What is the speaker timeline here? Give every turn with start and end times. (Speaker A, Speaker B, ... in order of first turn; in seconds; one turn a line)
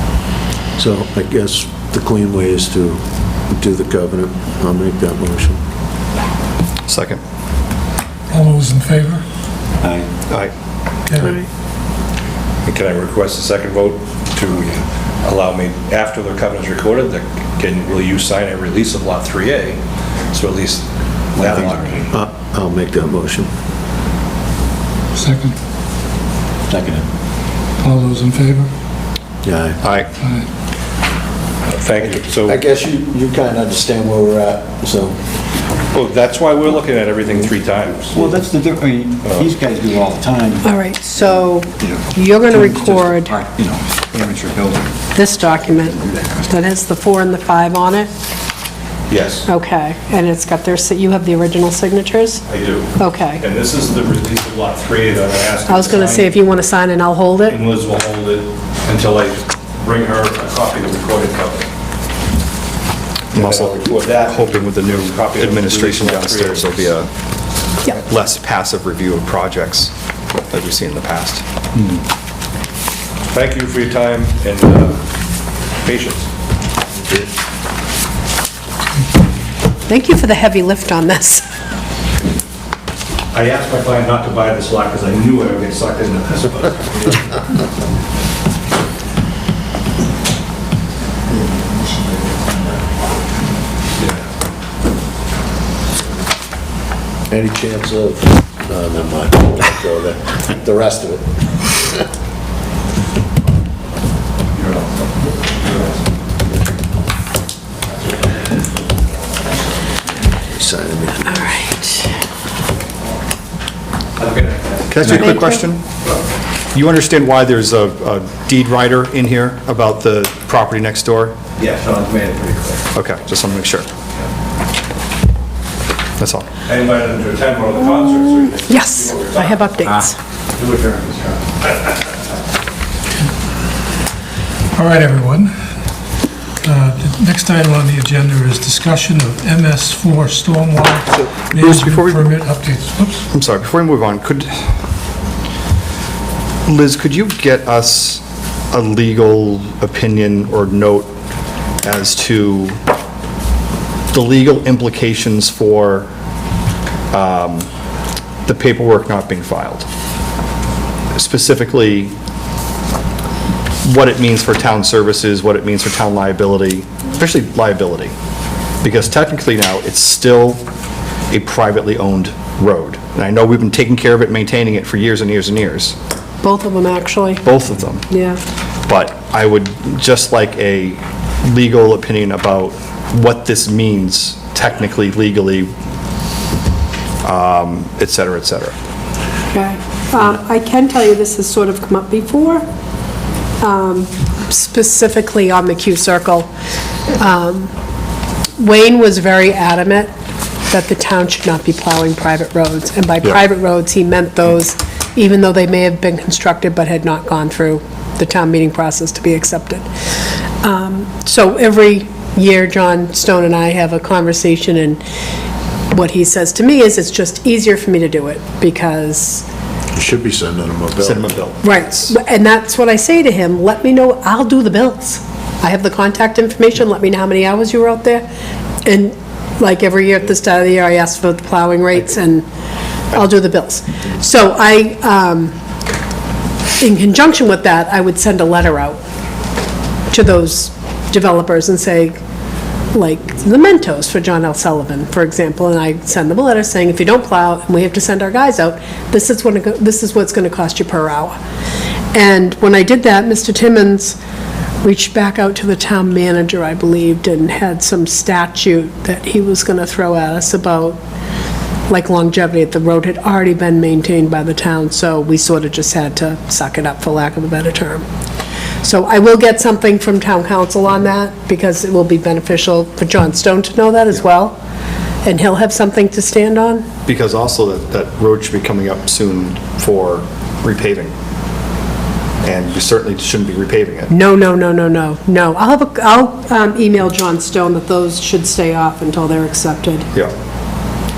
Speaker A: 0.8-5.6
Speaker B: 6.9-7.2
Speaker C: 8.3-9.2
Speaker D: 9.8-10.1
Speaker E: 11.2-11.4
Speaker F: 12.7-19.8
Speaker F: 20.3-20.8
Speaker F: 21.3-22.1
Speaker A: 21.4-23.5
Speaker C: 25.1-25.5
Speaker A: 26.7-27.1
Speaker C: 27.8-28.7
Speaker A: 29.4-29.8
Speaker F: 31.6-32.6
Speaker A: 32.0-35.2
Speaker F: 35.9-38.3
Speaker D: 38.1-40.7
Speaker F: 39.2-39.5
Speaker E: 40.6-43.4
Speaker D: 41.8-45.0
Speaker E: 45.1-48.1
Speaker D: 46.0-46.5
Speaker F: 49.1-49.5
Speaker E: 49.5-52.4
Speaker F: 52.5-56.3
Speaker E: 53.0-53.4
Speaker E: 55.7-57.6
Speaker F: 57.5-61.7
Speaker F: 63.3-66.9
Speaker B: 63.3-67.1
Speaker B: 67.8-69.9
Speaker B: 70.5-71.4
Speaker F: 73.3-75.0
Speaker F: 75.8-76.2
Speaker E: 79.9-81.4
Speaker F: 83.3-87.3
Speaker A: 97.3-102.0
Speaker F: 104.6-104.9
Speaker F: 105.5-105.9
Speaker A: 110.5-111.4
Speaker E: 111.2-112.1
Speaker F: 114.2-114.9
Speaker B: 114.9-115.8
Speaker E: 115.0-115.6
Speaker B: 116.7-121.3
Speaker F: 121.6-122.8
Speaker B: 122.9-123.9
Speaker B: 126.2-126.5
Speaker F: 126.7-129.7
Speaker E: 128.5-130.2
Speaker F: 130.6-131.9
Speaker C: 134.7-135.5
Speaker C: 136.6-143.2
Speaker B: 141.1-142.3
Speaker B: 143.3-144.6
Speaker B: 146.7-151.1
Speaker B: 151.8-152.8
Speaker B: 154.1-156.1
Speaker B: 157.1-157.7
Speaker B: 158.4-159.8
Speaker B: 161.1-162.1
Speaker B: 163.8-168.1
Speaker B: 168.8-170.6
Speaker B: 171.3-175.9
Speaker E: 176.4-177.5
Speaker B: 177.4-178.0
Speaker E: 178.1-178.4
Speaker B: 178.9-185.7
Speaker B: 187.2-188.7
Speaker E: 189.5-192.6
Speaker E: 193.6-196.5
Speaker E: 197.1-197.7
Speaker E: 198.6-200.1
Speaker E: 200.7-209.9
Speaker E: 210.6-215.0
Speaker E: 215.9-219.4
Speaker A: 219.9-221.3
Speaker B: 221.0-222.1
Speaker E: 221.6-228.3
Speaker E: 228.8-232.4
Speaker E: 233.1-235.5
Speaker E: 236.8-239.0
Speaker E: 240.1-242.2
Speaker E: 242.9-251.4
Speaker E: 252.1-254.2
Speaker E: 254.8-261.0
Speaker E: 261.9-268.0
Speaker E: 268.8-274.6
Speaker E: 275.2-276.8
Speaker B: 277.1-281.1
Speaker B: 282.4-284.1
Speaker E: 284.1-290.1